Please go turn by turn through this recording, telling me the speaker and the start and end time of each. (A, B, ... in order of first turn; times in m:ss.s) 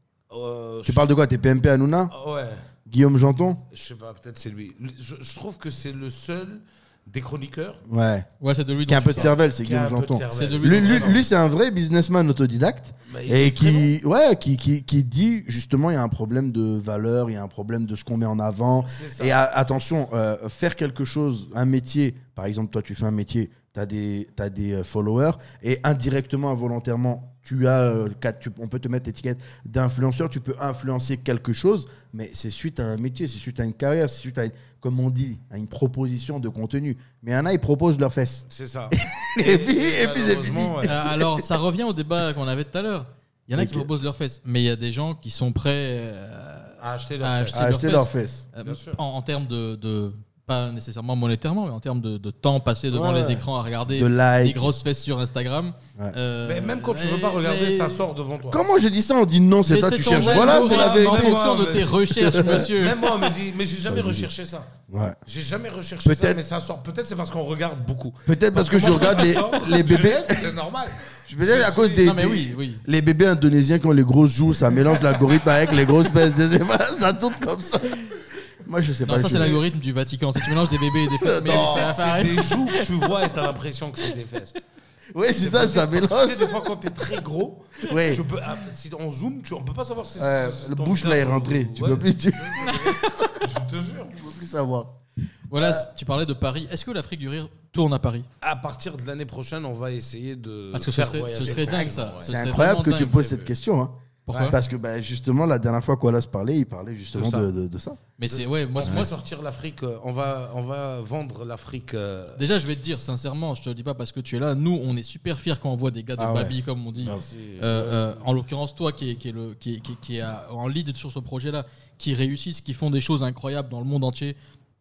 0:00.3-0:01.1 A
0:00.8-0:02.1 B
0:02.1-0:02.6 A
0:02.8-0:03.6 B
0:03.7-0:07.8 A
0:07.9-0:08.3 B
0:08.4-0:09.3 C
0:08.9-0:41.4 B
0:09.1-0:11.2 A
0:10.3-0:11.2 C
0:13.0-0:13.9 A
0:18.8-0:19.4 A
0:38.5-0:41.0 A
0:40.8-0:58.0 C
0:43.5-0:43.9 B
0:46.8-0:47.6 A
0:47.5-0:48.4 B
0:48.6-0:49.0 A
0:52.9-0:54.7 B
0:56.4-0:58.6 A
0:58.5-1:01.4 B
0:59.7-1:03.1 C
1:00.0-1:04.7 A
1:02.1-1:02.7 B
1:03.9-1:04.3 B
1:04.9-1:05.2 B
1:05.2-1:12.1 A
1:06.0-1:06.4 B
1:08.2-1:10.5 B
1:11.3-1:18.1 B
1:12.0-1:12.8 C
1:14.9-1:15.3 A
1:18.6-1:19.6 B
1:19.0-1:22.8 C
1:21.2-1:22.0 B
1:21.6-1:24.6 A
1:25.1-1:26.7 B
1:25.4-1:34.2 A
1:27.9-1:28.2 B
1:30.2-1:33.4 B
1:34.2-1:35.0 B
1:35.5-1:38.3 C
1:35.5-1:35.8 B
1:38.4-1:43.5 A
1:40.7-1:43.3 C
1:42.2-1:48.0 B
1:44.3-1:44.6 C
1:47.1-1:47.5 A
1:48.2-1:49.1 C
1:48.2-1:52.4 A
1:48.8-1:49.1 B
1:52.4-2:04.4 C
1:56.2-1:57.2 B
1:57.0-1:58.2 A